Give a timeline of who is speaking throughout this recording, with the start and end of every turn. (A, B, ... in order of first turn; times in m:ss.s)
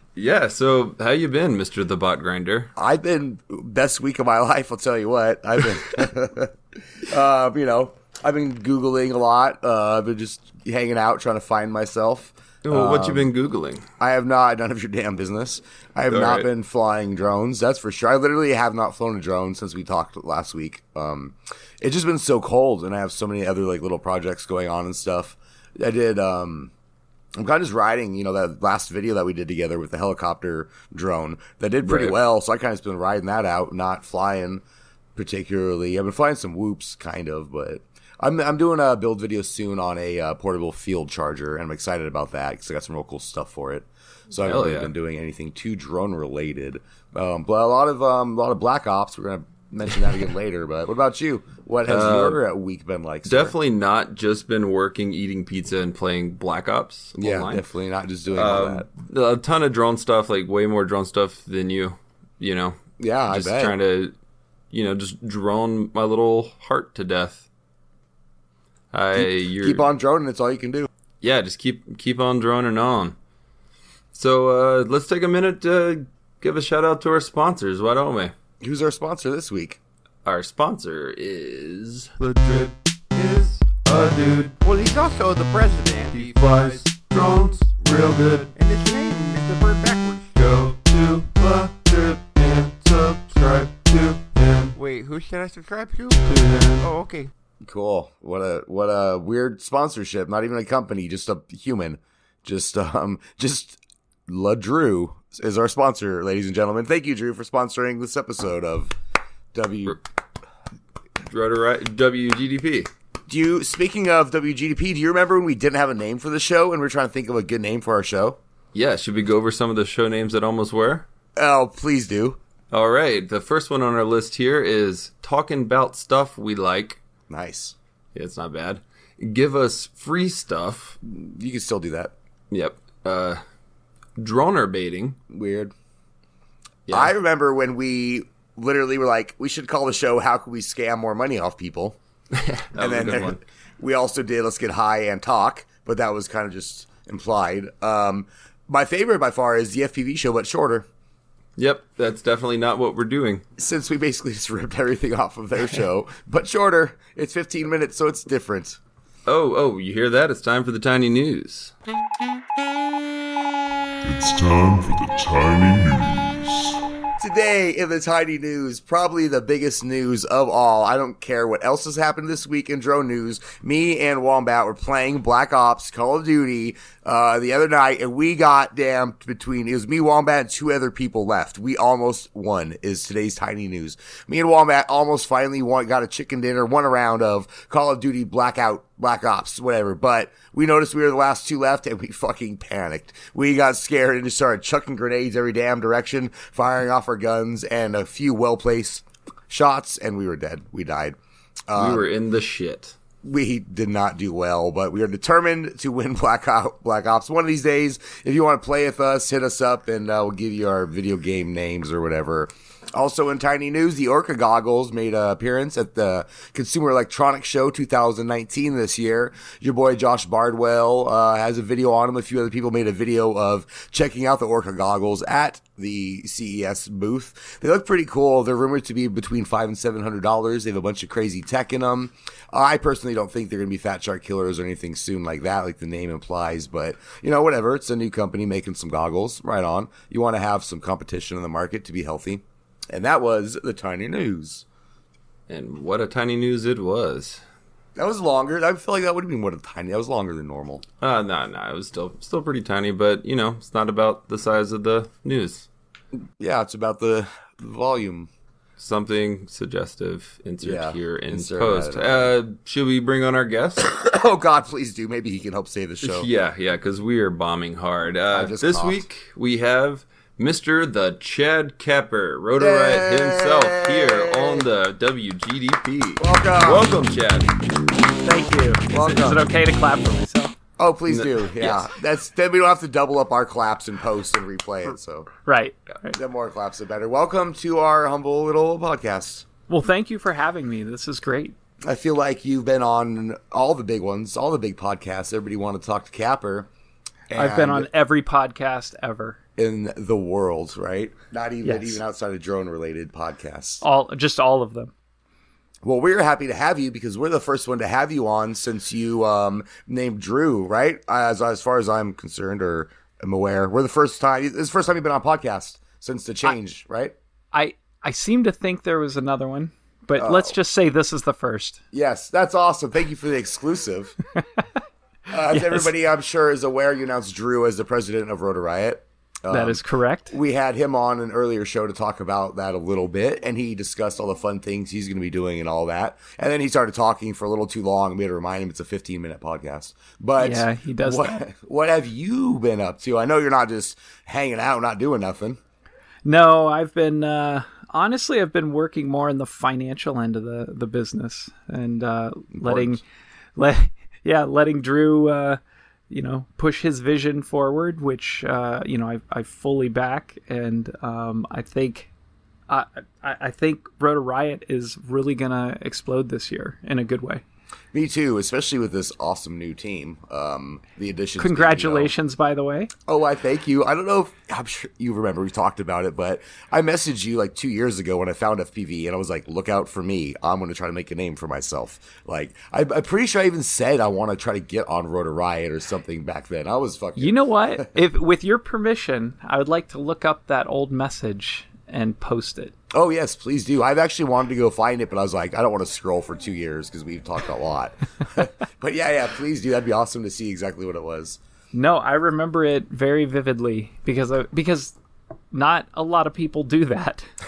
0:00.2-0:02.7 A
0:02.8-0:06.5 B
0:07.0-0:13.3 B
0:12.6-0:13.8 A
0:14.0-0:26.7 B
0:16.1-0:16.5 A
0:27.4-0:34.6 B
0:31.8-0:32.2 A
0:35.2-0:53.6 B
0:44.4-0:44.9 A
0:51.9-0:52.4 A
0:53.3-0:57.6 A
0:57.2-0:58.9 B
0:58.3-1:04.1 A
1:03.0-1:03.8 B
1:04.7-1:07.5 A
1:08.9-1:09.9 A
1:09.2-1:10.9 B
1:11.2-1:13.2 A
1:14.1-1:18.3 A
1:18.6-1:19.8 B
1:20.2-1:22.1 A
1:22.2-1:24.6 C
1:24.6-1:26.8 D
1:26.1-1:28.5 C
1:28.5-1:30.3 D
1:30.4-1:34.8 C
1:34.8-1:37.3 D
1:36.2-1:36.9 C
1:37.6-1:48.9 B
1:49.5-1:50.0 B
1:51.3-1:52.9 A
1:53.3-1:58.4 B
1:58.7-2:01.1 A
2:01.4-2:02.4 B
2:02.7-2:07.0 A
2:07.3-2:07.8 B
2:08.2-2:11.0 A
2:11.0-2:12.1 B
2:12.5-2:13.4 A
2:14.2-2:15.2 A
2:15.3-2:15.7 B
2:16.9-2:17.1 A
2:16.9-2:22.0 B
2:22.3-2:23.4 A
2:22.8-2:30.9 B
2:31.6-2:33.4 A
2:33.6-2:38.8 B
2:39.3-2:41.7 A
2:44.0-2:46.8 E
2:47.2-3:21.2 B
3:21.7-3:22.1 B
3:21.8-3:23.0 A
3:23.2-4:04.7 B
4:05.5-4:07.4 A
4:08.0-4:10.8 B
4:11.0-4:15.7 A
4:16.4-4:18.3 B
4:18.8-4:23.9 A
4:20.6-4:22.3 B
4:23.8-4:26.3 B
4:26.0-4:37.5 A
4:28.3-4:29.0 B
4:32.6-4:34.6 B
4:36.2-4:36.9 B
4:38.2-4:40.5 F
4:38.9-4:39.4 B
4:40.8-4:45.3 B
4:41.1-4:41.9 A
4:45.4-4:46.2 F
4:46.1-4:49.4 B
4:49.7-4:51.6 F
4:51.9-4:56.7 B
4:57.3-4:57.9 B
4:57.3-4:59.4 F
4:59.6-5:03.8 B
5:01.6-5:02.0 F
5:03.8-5:04.9 F
5:05.8-5:17.2 B
5:17.5-5:21.8 F
5:20.2-5:20.6 B
5:21.9-5:24.2 B
5:25.3-5:45.6 B
5:25.5-5:25.9 F
5:29.5-5:30.4 F
5:40.4-5:41.4 F
5:46.2-5:53.0 F
5:52.5-5:53.0 B
5:53.6-6:02.1 F
6:02.7-6:07.4 F
6:07.9-6:12.1 B
6:11.4-6:12.9 F
6:13.1-6:28.0 B
6:27.2-6:32.7 F
6:32.9-6:41.4 B
6:41.7-6:45.0 F
6:45.5-6:47.3 F